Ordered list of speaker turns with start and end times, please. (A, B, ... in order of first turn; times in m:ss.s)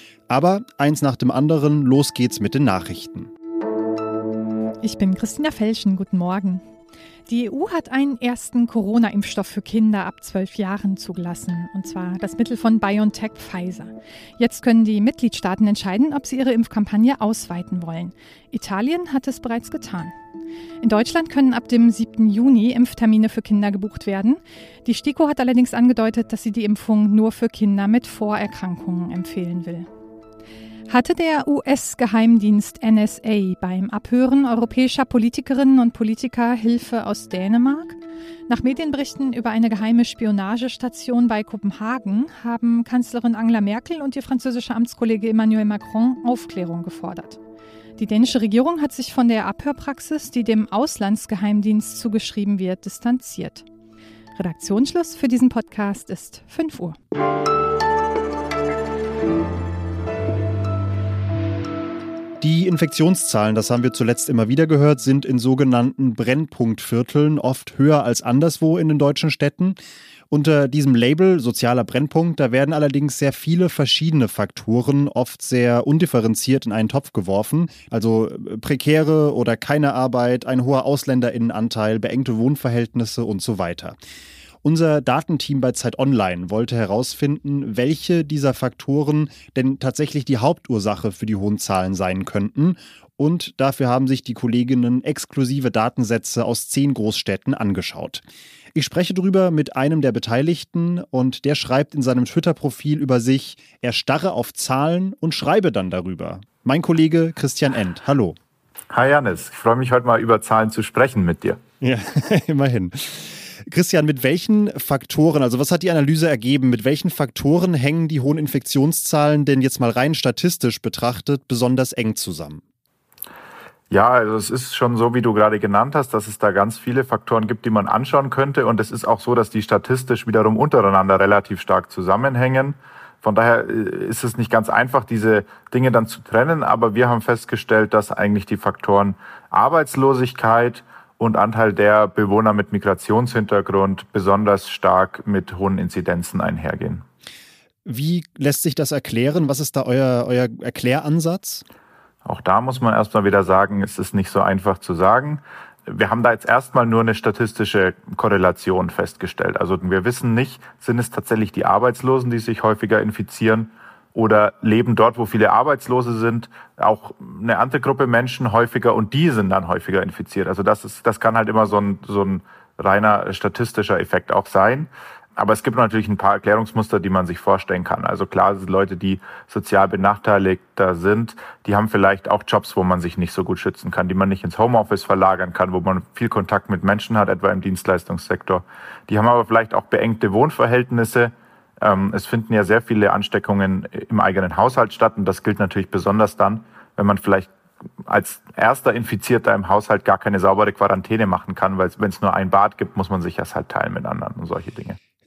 0:00.3-0:03.3 A
0:04.8-0:06.6 B
0:07.3-0:20.1 B
0:20.8-0:29.9 B
0:30.9-0:47.4 B
0:48.0-0:53.6 B
0:54.4-0:57.0 B
1:02.4-1:09.8 A
1:10.3-1:24.0 A
1:24.6-1:38.2 A
1:38.7-1:48.4 A
1:48.9-1:51.6 C
1:51.8-2:02.6 A
2:03.9-2:27.0 C
2:27.8-2:31.6 A
2:32.2-3:17.5 C
3:18.0-3:25.0 C